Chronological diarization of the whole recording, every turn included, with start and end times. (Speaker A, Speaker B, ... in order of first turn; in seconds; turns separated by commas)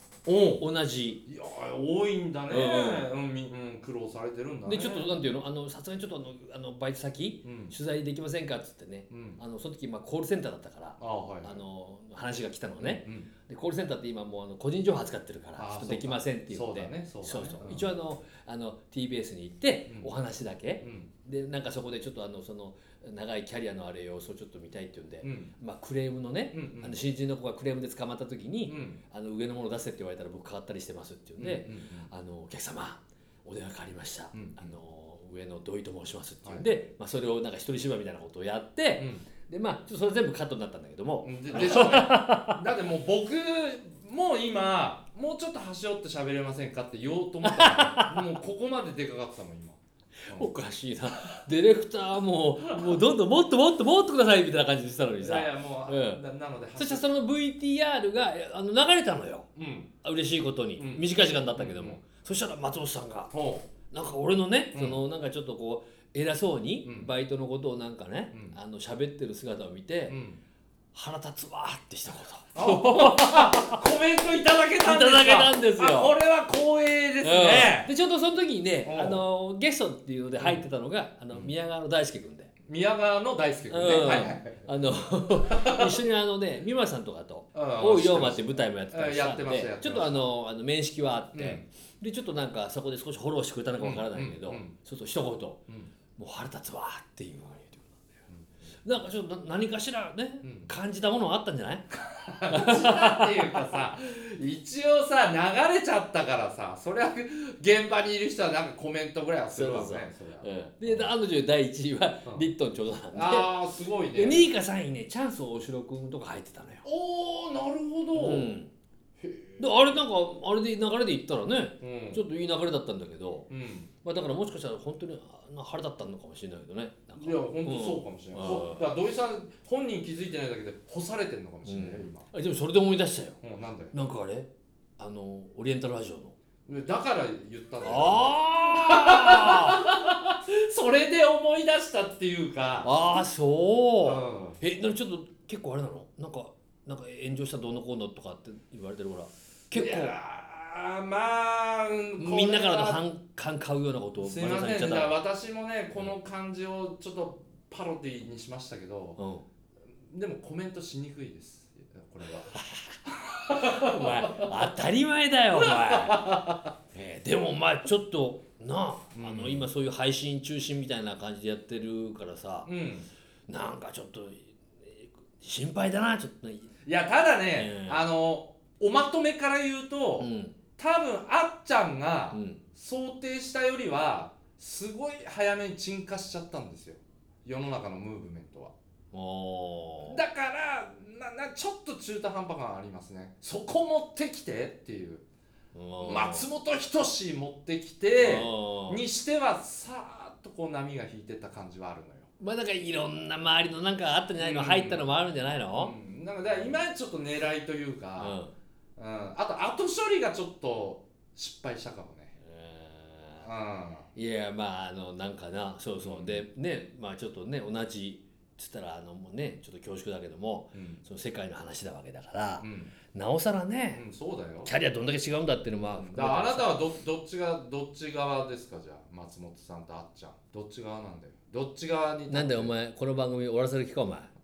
Speaker A: 0.2-0.7, Speaker B: 0.6-1.2, Speaker A: 1.3-5.1, Speaker B: 2.5-3.1, Speaker B: 4.7-42.6, Speaker A: 7.4-7.8, Speaker A: 9.1-9.4, Speaker A: 11.0-11.6, Speaker A: 12.8-13.3, Speaker A: 15.6-17.9, Speaker A: 20.8-21.1, Speaker A: 25.2-25.5, Speaker A: 26.5-27.0, Speaker A: 28.7-29.0, Speaker A: 31.4-32.1, Speaker A: 34.3-34.8, Speaker A: 36.4-36.7, Speaker A: 39.0-39.3, Speaker A: 41.2-50.5, Speaker B: 47.4-48.4, Speaker B: 50.3-56.2, Speaker A: 52.7-53.0, Speaker A: 55.2-57.1, Speaker B: 56.8-59.5, Speaker A: 59.5-59.9, Speaker B: 60.0-63.3, Speaker A: 60.8-62.0, Speaker A: 63.3-63.7, Speaker B: 63.9-70.2, Speaker A: 64.7-65.0, Speaker A: 66.8-67.1, Speaker A: 68.3-68.6, Speaker A: 70.1-70.4, Speaker B: 70.9-73.8, Speaker A: 72.5-77.9, Speaker B: 74.8-76.2, Speaker B: 77.2-82.5, Speaker A: 78.8-79.2, Speaker A: 80.4-80.6, Speaker A: 82.7-86.0, Speaker B: 83.7-95.6, Speaker A: 87.5-90.3, Speaker A: 91.3-91.7, Speaker A: 93.8-94.8, Speaker A: 95.7-95.9, Speaker B: 96.2-98.1, Speaker B: 98.8-102.0, Speaker A: 100.4-100.7, Speaker A: 102.0-111.1, Speaker B: 102.5-103.7, Speaker B: 109.5-113.5, Speaker A: 112.3-112.5, Speaker A: 113.1-114.5, Speaker B: 114.2-116.8, Speaker A: 116.8-118.5, Speaker B: 118.1-118.7, Speaker A: 119.2-120.0, Speaker B: 119.6-123.5, Speaker A: 121.8-122.2, Speaker A: 123.5-123.9, Speaker B: 124.0-128.9, Speaker A: 127.2-132.3, Speaker B: 131.7-133.4, Speaker A: 133.4-133.9, Speaker B: 133.9-136.3, Speaker A: 136.7-142.9, Speaker B: 137.8-139.8, Speaker B: 142.8-150.2, Speaker A: 144.0-144.6, Speaker A: 149.7-153.0, Speaker B: 152.2-155.2, Speaker A: 154.2-159.2, Speaker B: 159.2-159.4, Speaker A: 160.1-162.6, Speaker A: 163.3-164.7, Speaker B: 163.4-172.7, Speaker A: 165.5-166.6, Speaker A: 169.1-169.7, Speaker A: 172.7-173.1, Speaker B: 173.5-176.7, Speaker A: 176.8-188.7, Speaker B: 177.5-178.1, Speaker B: 180.2-180.6, Speaker B: 182.3-182.6, Speaker B: 189.1-190.2, Speaker A: 190.0-195.3, Speaker B: 195.7-196.5, Speaker A: 196.0-202.3, Speaker B: 198.2-199.0, Speaker B: 202.4-206.0, Speaker A: 204.4-205.1, Speaker A: 205.7-208.4, Speaker B: 208.2-208.5, Speaker A: 209.0-212.4, Speaker B: 212.4-213.5, Speaker A: 213.4-214.1, Speaker B: 214.1-224.0, Speaker A: 216.0-216.4, Speaker A: 220.7-221.1, Speaker A: 222.6-222.9, Speaker A: 223.9-224.7, Speaker B: 224.7-226.8, Speaker A: 225.9-232.7, Speaker B: 232.3-234.3